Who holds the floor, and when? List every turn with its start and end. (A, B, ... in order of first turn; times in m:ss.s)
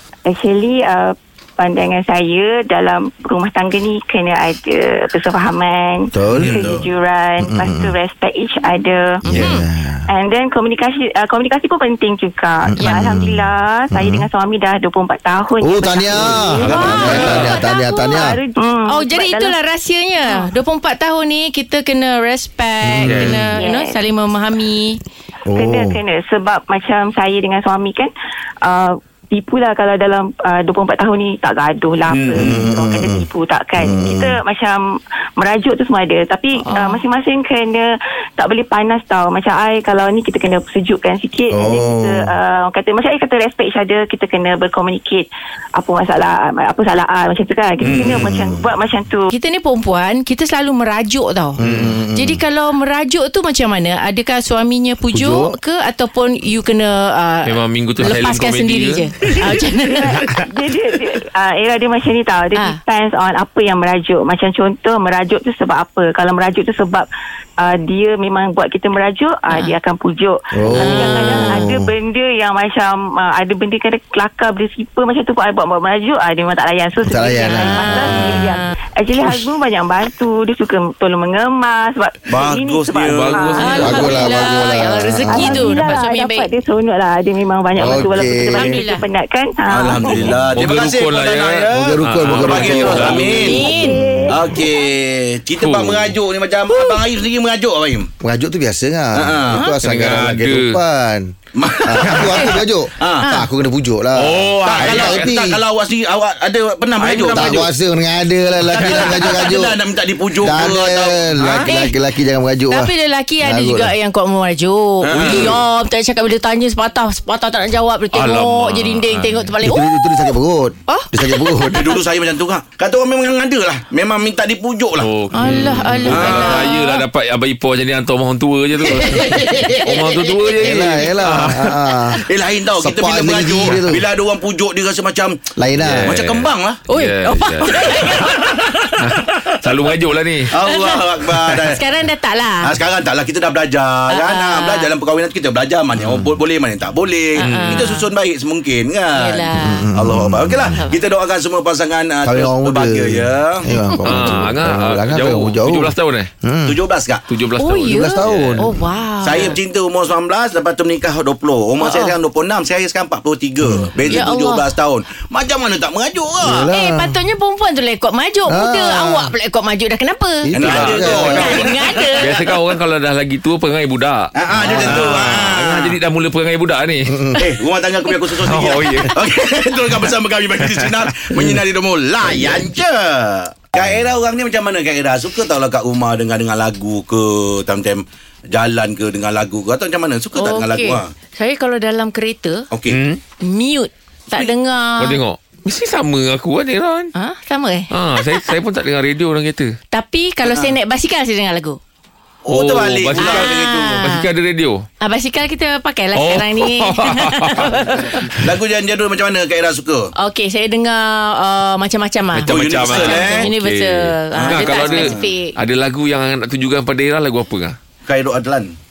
0:00.2-0:09.6 A
0:06.1-0:06.6 B
0:06.3-0:06.6 C
0:06.5-0:06.9 D
0:07.4-0:07.9 B
0:09.2-0:10.1 B
0:09.3-0:09.6 E
0:10.1-0:19.5 A
0:12.7-0:14.3 B
0:12.8-0:13.0 E
0:15.6-0:18.4 B
0:16.2-0:17.4 D
0:16.6-0:17.2 E
0:16.9-0:17.6 C
0:18.9-0:25.0 E
0:22.8-0:23.5 B
0:23.1-0:23.5 C
0:23.6-0:23.9 A
0:25.5-0:26.0 B
0:25.5-0:28.1 A
0:28.6-0:34.8 A
0:32.1-0:32.4 C
0:32.4-0:33.2 B
0:33.8-0:34.4 B
0:35.4-0:49.3 A
0:36.6-0:37.0 E
0:41.5-0:42.3 B
0:47.8-0:48.7 B
0:47.8-0:48.3 C
0:49.3-0:51.6 E
0:51.6-0:52.4 B
0:51.6-0:52.0 C
0:52.1-1:00.2 E
0:55.0-0:55.5 B
0:57.4-0:59.4 C
0:59.8-1:07.1 A
1:07.6-1:24.5 A
1:09.5-1:09.7 E
1:10.5-1:11.9 B
1:10.8-1:11.5 E
1:17.0-1:18.5 B
1:17.4-1:18.7 E
1:22.3-1:24.2 D
1:23.0-1:24.1 C
1:23.6-1:26.5 E
1:23.8-1:25.9 B
1:25.2-1:30.4 A
1:27.8-1:28.8 B
1:28.5-1:29.0 E
1:29.7-1:33.7 D
1:30.1-1:33.7 C
1:31.7-1:34.1 B
1:32.9-1:34.6 A
1:33.0-1:34.0 E
1:34.3-1:38.1 D
1:35.6-1:36.1 C
1:38.2-1:41.3 B
1:39.1-1:39.7 D
1:39.7-1:40.8 C
1:41.6-1:43.3 D
1:41.8-1:45.6 B
1:42.1-1:42.4 C
1:43.2-1:43.5 E
1:44.2-1:45.4 C
1:44.6-1:47.7 D
1:47.0-1:47.7 C
1:47.3-1:49.8 B
1:48.7-1:51.7 D
1:50.4-1:53.9 B
1:51.6-1:52.0 E
1:52.7-2:00.3 E
1:55.0-1:55.6 D
1:55.1-1:55.6 C
1:58.1-1:59.5 C
1:59.6-2:02.0 B
2:00.9-2:01.6 E
2:01.7-2:05.2 D
2:05.0-2:12.1 C
2:05.3-2:07.0 E
2:06.0-2:06.7 D
2:08.8-2:10.8 D
2:10.5-2:12.2 B
2:12.2-2:16.8 D
2:12.8-2:14.0 B
2:15.6-2:16.2 B
2:15.8-2:18.3 C
2:16.9-2:18.5 E
2:17.7-2:19.6 D
2:19.0-2:20.5 C
2:20.5-2:21.8 D
2:20.6-2:22.7 E
2:22.6-2:33.7 D
2:24.1-2:24.9 E
2:26.0-2:26.3 B
2:27.4-2:28.0 E
2:27.4-2:27.8 C
2:29.1-2:29.9 E
2:29.6-2:30.8 B
2:30.7-2:31.0 E
2:32.2-2:36.8 B
2:33.8-2:34.4 E
2:34.0-2:36.3 C
2:36.6-2:37.2 D
2:37.3-2:38.7 C
2:37.6-2:39.6 E
2:37.8-2:38.9 B
2:39.2-2:46.7 D
2:41.8-2:42.2 E
2:43.6-2:43.9 B
2:44.0-2:44.7 E
2:46.4-2:47.2 B
2:46.7-2:52.3 E
2:48.5-2:49.3 B
2:50.4-2:51.6 B
2:50.5-2:52.4 D
2:50.6-2:57.1 C
2:54.3-2:56.0 D
2:54.5-2:55.1 B
2:57.0-2:57.4 B
2:57.4-3:11.1 D
2:58.4-2:59.2 C
3:02.2-3:02.6 B
3:10.4-3:12.7 E
3:12.7-3:13.0 D
3:12.9-3:13.2 C
3:13.4-3:15.2 E
3:15.0-3:17.1 C
3:17.1-3:18.4 E
3:17.9-3:19.7 C
3:19.9-3:21.8 E
3:20.4-3:20.7 D
3:22.4-3:24.0 D
3:22.5-3:24.8 C
3:23.1-3:24.2 E
3:25.0-3:28.4 E
3:26.2-3:28.2 C
3:28.3-3:30.1 D
3:30.2-3:35.5 E
3:32.3-3:37.8 C
3:32.5-3:33.5 D
3:34.3-3:35.3 D
3:38.1-3:38.7 D